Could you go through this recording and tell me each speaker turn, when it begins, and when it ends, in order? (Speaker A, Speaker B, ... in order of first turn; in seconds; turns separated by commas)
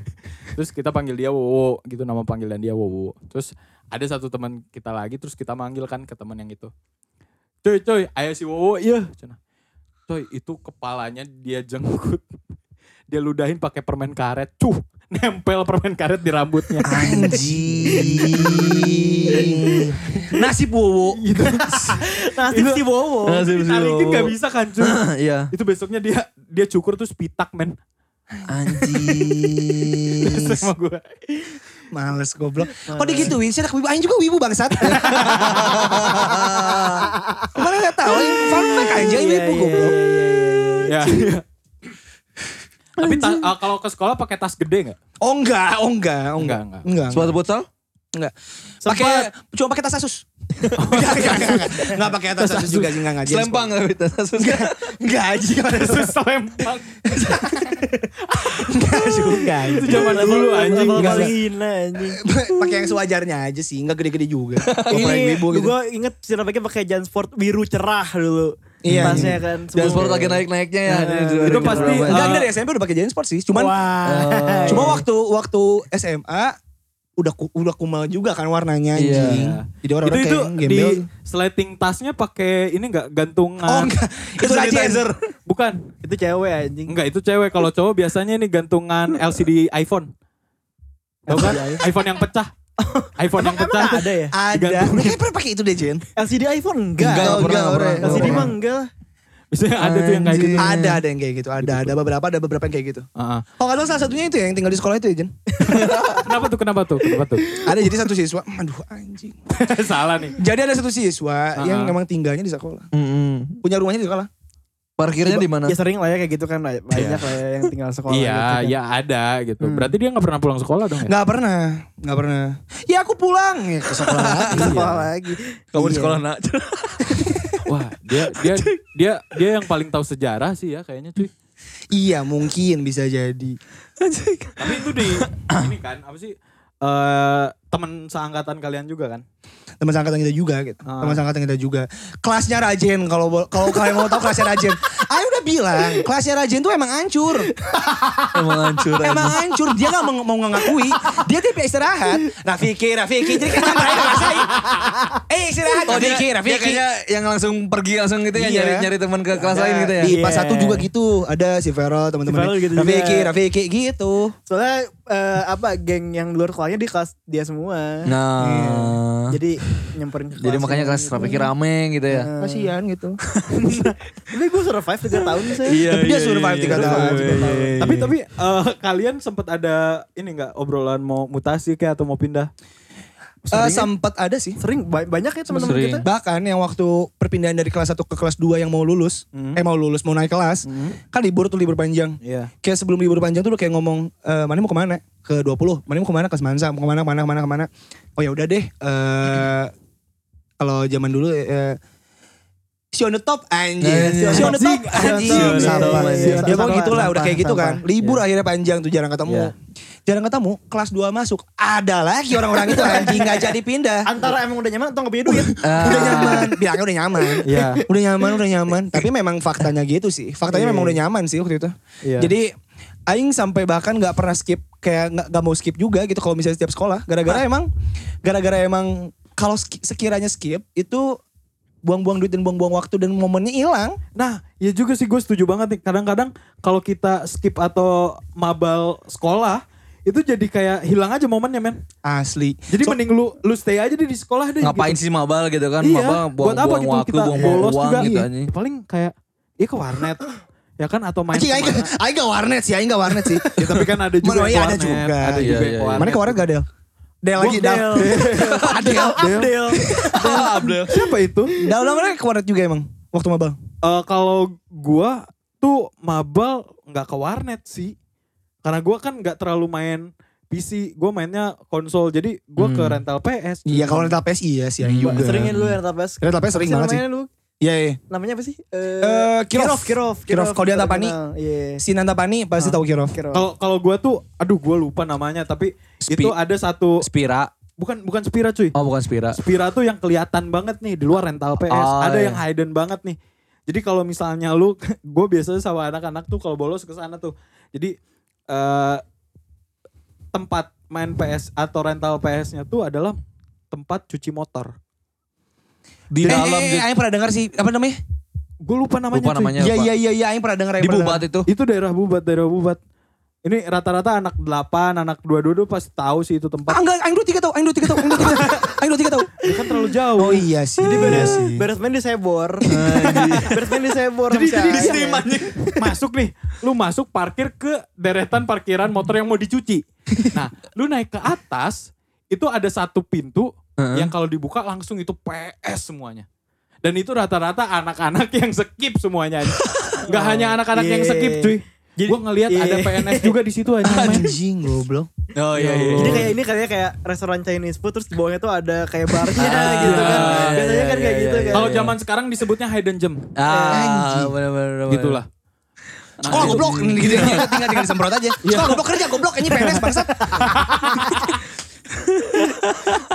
Speaker A: 0.5-6.7, Speaker A: 7.6-9.4, Speaker A: 10.1-12.2, Speaker A: 13.1-16.9, Speaker B: 16.9-21.2, Speaker C: 16.9-19.4, Speaker D: 19.3-19.9, Speaker A: 21.2-22.8, Speaker D: 21.4-23.5, Speaker C: 23.2-25.5, Speaker A: 23.4-27.8, Speaker B: 28.4-30.0, Speaker C: 28.5-30.6, Speaker A: 30.2-31.1, Speaker B: 31.9-36.3, Speaker D: 32.7-33.4, Speaker C: 34.9-37.1, Speaker A: 34.9-35.7, Speaker D: 35.1-37.5, Speaker B: 37.5-40.0, Speaker D: 38.1-41.4, Speaker A: 40.9-41.4, Speaker A: 43.0-45.0, Speaker C: 43.0-43.4, Speaker B: 45.2-47.3, Speaker A: 46.4-46.8, Speaker C: 47.1-47.7, Speaker B: 48.1-50.2, Speaker A: 48.8-49.2, Speaker A: 50.8-51.8, Speaker B: 50.8-53.7, Speaker D: 51.3-51.6, Speaker A: 52.4-52.9, Speaker C: 53.2-54.8, Speaker B: 54.4-56.2, Speaker A: 55.6-57.0, Speaker B: 57.1-57.8, Speaker B: 58.4-61.3, Speaker D: 59.0-62.2, Speaker A: 59.6-61.3, Speaker B: 62.0-65.7, Speaker C: 64.6-65.2, Speaker D: 64.9-72.1, Speaker B: 68.8-69.4, Speaker C: 68.9-72.4, Speaker A: 71.5-72.5, Speaker B: 72.1-73.8, Speaker D: 73.5-75.0, Speaker C: 74.0-75.0, Speaker B: 74.7-76.5, Speaker B: 77.2-81.0, Speaker C: 78.9-79.4, Speaker A: 79.1-85.8, Speaker B: 83.6-85.1, Speaker D: 86.0-86.9, Speaker A: 86.9-90.1, Speaker D: 91.3-91.8, Speaker A: 91.3-92.5, Speaker D: 92.8-94.3, Speaker A: 93.2-95.2, Speaker B: 94.3-96.0, Speaker D: 96.2-98.9, Speaker C: 97.0-98.5, Speaker B: 97.2-98.5, Speaker A: 98.0-98.4, Speaker A: 99.5-100.8, Speaker C: 99.8-101.0, Speaker B: 100.6-103.0, Speaker A: 103.2-103.4, Speaker B: 103.6-105.3, Speaker D: 105.5-106.0, Speaker C: 105.6-106.3, Speaker A: 106.2-107.5, Speaker D: 107.3-107.8, Speaker B: 107.6-109.3, Speaker A: 109.5-110.4, Speaker B: 110.4-112.9, Speaker A: 111.6-112.0, Speaker C: 112.9-113.6, Speaker B: 113.6-114.3, Speaker C: 115.0-115.8, Speaker D: 115.2-118.7, Speaker A: 116.9-117.2, Speaker A: 118.1-121.1, Speaker D: 119.6-119.9, Speaker B: 121.0-124.9, Speaker C: 123.9-125.0, Speaker D: 124.5-126.2, Speaker C: 125.7-128.7, Speaker A: 127.7-131.3, Speaker B: 131.9-133.6, Speaker C: 134.0-135.7, Speaker A: 134.6-139.2, Speaker B: 139.8-147.5, Speaker A: 140.8-141.2, Speaker D: 143.8-144.5, Speaker D: 147.5-148.5, Speaker C: 148.3-149.4, Speaker B: 149.0-154.5, Speaker D: 153.3-155.2, Speaker B: 155.3-156.8, Speaker C: 155.9-160.2, Speaker B: 158.3-158.9, Speaker D: 159.4-160.8, Speaker B: 159.9-164.3, Speaker D: 162.3-163.3, Speaker D: 164.5-168.1, Speaker C: 168.1-169.4, Speaker B: 168.4-169.0, Speaker D: 169.3-171.5, Speaker C: 170.4-172.3, Speaker D: 172.1-172.7, Speaker B: 172.4-173.2, Speaker D: 173.5-175.8, Speaker C: 175.6-178.1, Speaker B: 175.8-177.7, Speaker D: 176.9-177.8, Speaker A: 177.8-182.5, Speaker D: 183.5-183.9, Speaker B: 183.5-184.6, Speaker D: 184.6-186.1, Speaker C: 185.5-186.0, Speaker B: 186.0-199.7, Speaker A: 189.3-189.6, Speaker A: 190.7-191.0, Speaker A: 192.2-192.5, Speaker B: 200.6-201.8, Speaker B: 202.9-209.5, Speaker C: 203.8-206.8, Speaker D: 204.2-207.8, Speaker A: 204.3-206.4, Speaker B: 210.1-214.1, Speaker D: 212.6-213.5, Speaker D: 214.1-216.5, Speaker B: 215.2-222.5, Speaker C: 215.6-216.5, Speaker D: 217.2-218.4, Speaker A: 217.5-217.8, Speaker D: 220.5-220.9, Speaker A: 222.0-222.3, Speaker B: 223.1-227.7, Speaker B: 228.2-231.2, Speaker B: 231.8-234.0, Speaker A: 234.2-241.8, Speaker B: 242.0-243.0, Speaker A: 242.7-245.0, Speaker C: 244.6-248.5, Speaker A: 245.8-250.2, Speaker D: 247.3-248.2, Speaker A: 250.8-251.9, Speaker B: 251.3-256.6, Speaker A: 253.6-256.4, Speaker C: 255.4-256.1, Speaker B: 257.2-260.4, Speaker A: 257.4-261.5, Speaker D: 257.4-260.5, Speaker C: 258.5-259.0, Speaker C: 260.0-260.9, Speaker B: 261.6-263.6, Speaker A: 263.8-267.9, Speaker A: 268.6-274.2, Speaker C: 272.6-273.0, Speaker B: 273.6-275.7, Speaker C: 274.8-275.7, Speaker D: 275.0-277.3, Speaker B: 276.2-277.0, Speaker B: 277.6-278.0, Speaker D: 278.1-281.8, Speaker B: 279.0-281.1, Speaker B: 281.8-283.1, Speaker D: 282.6-283.4, Speaker A: 283.3-287.0, Speaker C: 286.1-286.3, Speaker C: 287.0-287.5, Speaker A: 287.8-288.7, Speaker C: 288.7-289.4, Speaker A: 289.3-293.2, Speaker C: 291.6-292.4, Speaker A: 293.7-297.9, Speaker A: 298.5-299.0, Speaker A: 300.3-303.2, Speaker A: 303.7-304.7, Speaker C: 306.1-306.9, Speaker B: 306.2-308.0, Speaker A: 306.2-306.5, Speaker A: 308.6-309.7, Speaker C: 309.1-309.9, Speaker B: 309.6-311.3, Speaker C: 310.8-311.5, Speaker A: 311.5-312.8, Speaker A: 313.4-316.8, Speaker B: 316.7-319.3, Speaker D: 319.4-319.8, Speaker A: 319.4-321.3, Speaker B: 320.2-321.6, Speaker D: 320.8-325.9, Speaker C: 322.6-323.6, Speaker A: 323.1-323.4, Speaker A: 324.3-336.2, Speaker C: 324.8-325.4, Speaker C: 333.8-334.1, Speaker A: 336.8-344.3, Speaker C: 339.7-339.9, Speaker D: 340.1-343.3, Speaker B: 343.8-345.1, Speaker C: 345.4-346.3, Speaker A: 345.5-346.3, Speaker D: 345.9-351.7, Speaker C: 349.3-351.9, Speaker A: 349.4-350.6, Speaker A: 351.5-353.4, Speaker C: 353.4-355.2, Speaker D: 353.5-353.9, Speaker B: 353.7-354.3, Speaker A: 354.9-355.2, Speaker A: 356.2-357.5, Speaker C: 356.2-357.6, Speaker B: 356.2-360.6, Speaker A: 358.4-361.2, Speaker D: 360.4-361.2, Speaker C: 362.2-362.9